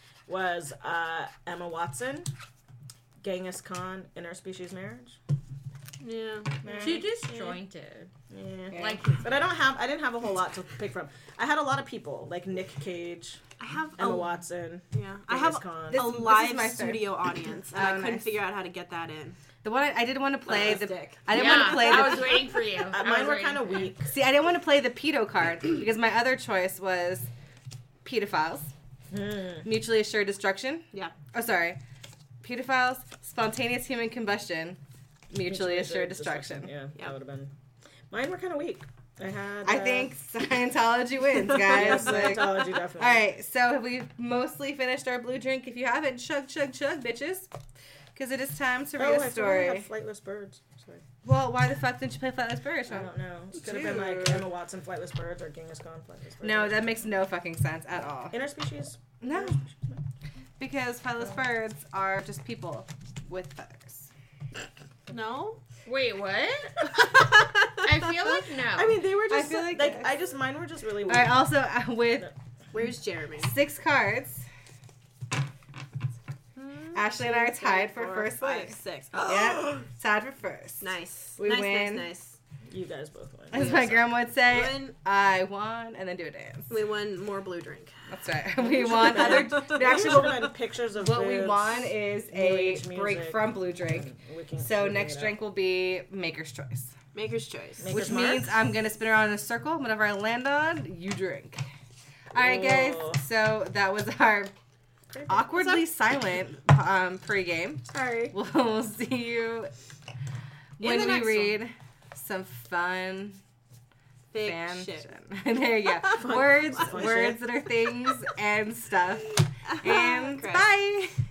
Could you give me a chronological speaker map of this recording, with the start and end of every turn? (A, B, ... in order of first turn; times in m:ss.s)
0:00.3-0:02.3 A
0:03.2-0:05.2 A
0:06.0-0:07.6 B
0:06.6-0:07.0 A
0:06.8-0:08.1 C
0:08.3-0:13.4 A
0:08.7-0:09.0 D
0:08.7-0:09.6 C
0:13.6-0:14.4 B
0:14.0-0:16.1 A
0:14.9-0:19.4 B
0:15.9-0:17.1 D
0:17.7-0:18.3 D
0:19.6-0:22.4 D
0:20.4-0:22.5 B
0:21.3-0:23.9 C
0:22.9-0:24.1 A
0:24.1-0:27.3 D
0:28.0-0:28.7 D
0:29.1-0:29.7 A
0:29.6-0:31.8 D
0:32.4-0:34.8 D
0:35.3-0:36.7 D
0:35.5-0:37.5 A
0:38.1-0:40.1 A
0:39.6-0:47.5 D
0:41.6-0:43.2 A
0:48.1-0:49.9 D
0:49.0-0:51.0 A
0:51.2-0:54.4 D
0:52.9-0:56.9 A
0:56.4-0:58.4 D
0:58.3-1:00.0 A
0:59.2-0:59.6 D
1:00.6-1:04.1 D
1:05.1-1:05.6 B
1:05.8-1:07.2 C
1:07.0-1:07.8 B
1:07.7-1:09.0 C
1:08.7-1:11.4 A
1:09.3-1:10.1 D
1:11.1-1:12.3 D
1:12.7-1:13.5 B
1:13.4-1:14.4 D
1:16.6-1:19.4 B
1:16.9-1:20.8 D
1:20.8-1:22.4 B
1:21.4-1:22.1 D
1:22.7-1:24.0 A
1:23.5-1:26.7 D
1:24.4-1:24.9 B
1:26.7-1:27.9 B
1:28.1-1:36.9 D
1:28.7-1:35.4 A
1:28.8-1:29.8 B
1:37.1-1:38.3 B
1:37.8-1:38.5 A
1:37.9-1:41.6 D
1:42.3-1:44.5 D
1:42.3-1:43.2 A
1:45.1-1:45.8 B
1:45.3-1:49.7 D
1:47.9-1:48.3 A
1:50.8-1:53.4 D
1:50.8-1:51.6 B
1:54.3-1:55.1 B
1:54.4-2:01.2 D
1:55.9-1:56.8 B
1:56.1-1:57.4 A
1:59.6-2:00.7 B